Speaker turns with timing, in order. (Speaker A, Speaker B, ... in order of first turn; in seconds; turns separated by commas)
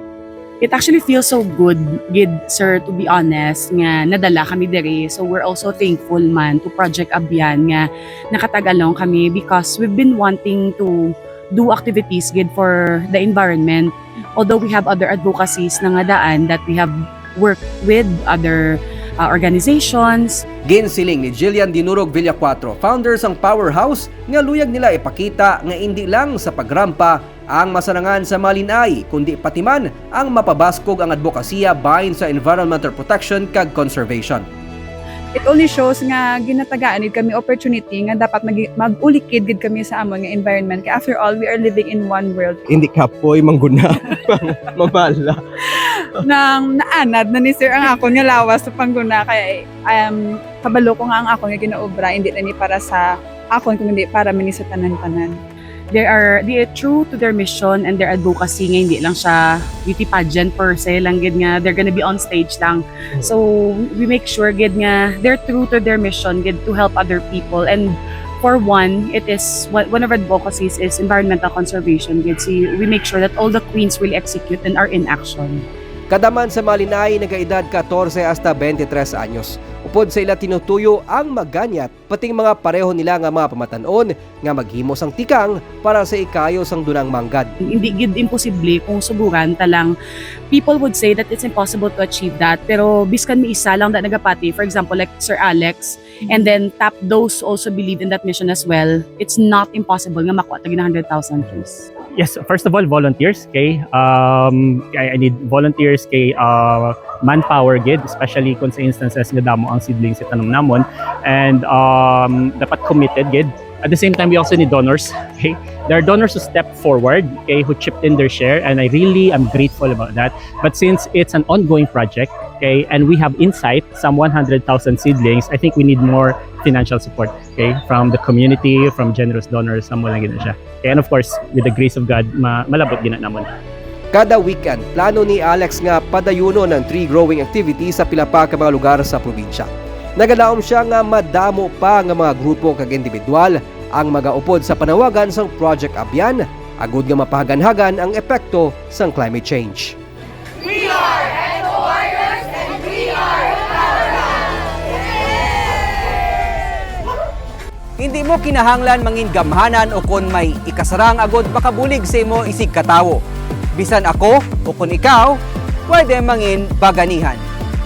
Speaker A: 0.6-20.4, Speaker B: 20.7-34.4, Speaker C: 35.4-42.6, Speaker D: 42.7-45.4, Speaker C: 46.2-55.4, Speaker A: 55.9-75.6, Speaker B: 76.1-87.5, Speaker A: 87.7-89.9, Speaker A: 90.5-101.9, Speaker E: 102.2-133.5, Speaker B: 134.1-149.9, Speaker B: 158.0-163.2, Speaker B: 163.8-167.4